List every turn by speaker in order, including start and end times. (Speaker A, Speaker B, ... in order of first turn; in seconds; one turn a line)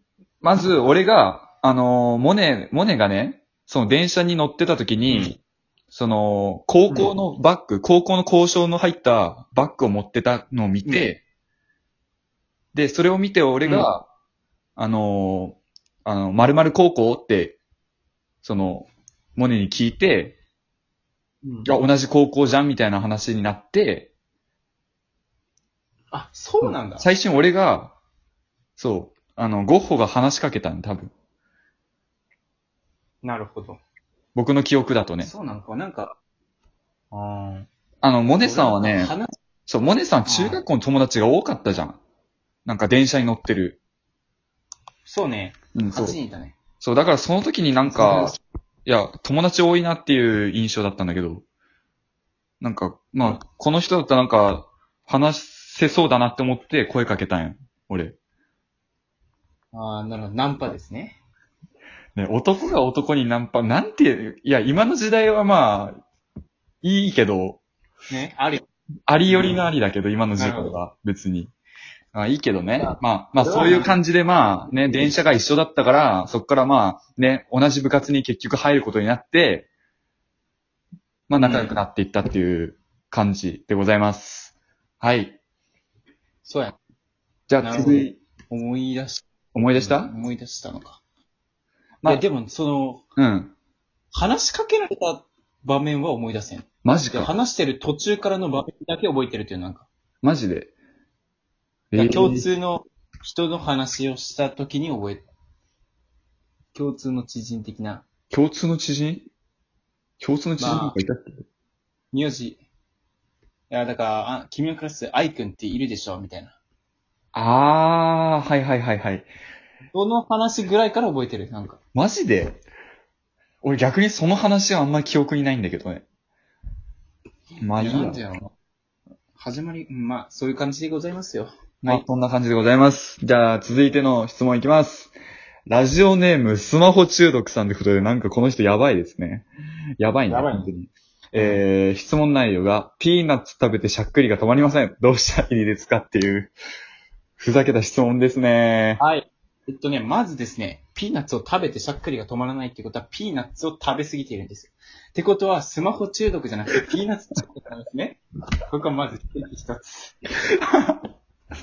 Speaker A: 0.4-5.3
Speaker B: 5.1-5.3
Speaker A: 5.9-11.2
Speaker B: 10.8-11.2
Speaker A: 12.7-14.1
Speaker B: 13.6-13.9
Speaker A: 14.8-17.6
Speaker A: 18.4-20.4
Speaker B: 21.4-21.8
Speaker A: 21.6-24.1
Speaker B: 26.1-27.1
Speaker A: 26.6-27.9
Speaker A: 28.8-31.1
Speaker B: 33.2-33.8
Speaker A: 34.3-35.3
Speaker B: 35.2-36.2
Speaker B: 37.1-37.7
Speaker A: 38.0-39.1
Speaker B: 38.4-39.3
Speaker A: 39.7-42.0
Speaker B: 40.2-40.6
Speaker A: 42.6-43.8
Speaker B: 45.0-46.6
Speaker A: 45.7-46.2
Speaker A: 46.8-51.4
Speaker B: 47.9-48.4
Speaker A: 52.6-58.2
Speaker B: 59.7-61.2
Speaker A: 62.1-66.0
Speaker A: 66.8-67.6
Speaker B: 68.1-68.6
Speaker A: 69.1-71.5
Speaker B: 69.3-69.6
Speaker B: 70.4-70.8
Speaker A: 72.1-79.7
Speaker B: 72.8-73.9
Speaker A: 81.3-85.4
Speaker B: 81.4-81.8
Speaker B: 86.4-86.8
Speaker A: 87.5-88.2
Speaker B: 87.6-91.0
Speaker A: 89.5-90.1
Speaker B: 92.0-93.0
Speaker A: 93.2-93.5
Speaker B: 94.1-99.9
Speaker A: 96.8-97.3
Speaker A: 100.2-100.7
Speaker A: 101.9-102.5
Speaker B: 101.9-105.2
Speaker B: 106.7-108.0
Speaker A: 108.3-109.3
Speaker A: 110.2-111.4
Speaker B: 110.6-111.0
Speaker B: 112.1-112.6
Speaker B: 113.7-116.6
Speaker A: 117.3-119.3
Speaker B: 119.9-121.8
Speaker A: 121.9-122.6
Speaker A: 123.6-126.0
Speaker A: 127.6-128.2
Speaker B: 127.8-128.5
Speaker B: 129.4-132.0
Speaker A: 131.8-135.1
Speaker A: 135.7-139.5
Speaker A: 140.0-146.5
Speaker B: 140.3-140.7
Speaker A: 147.4-149.0
Speaker B: 149.0-160.2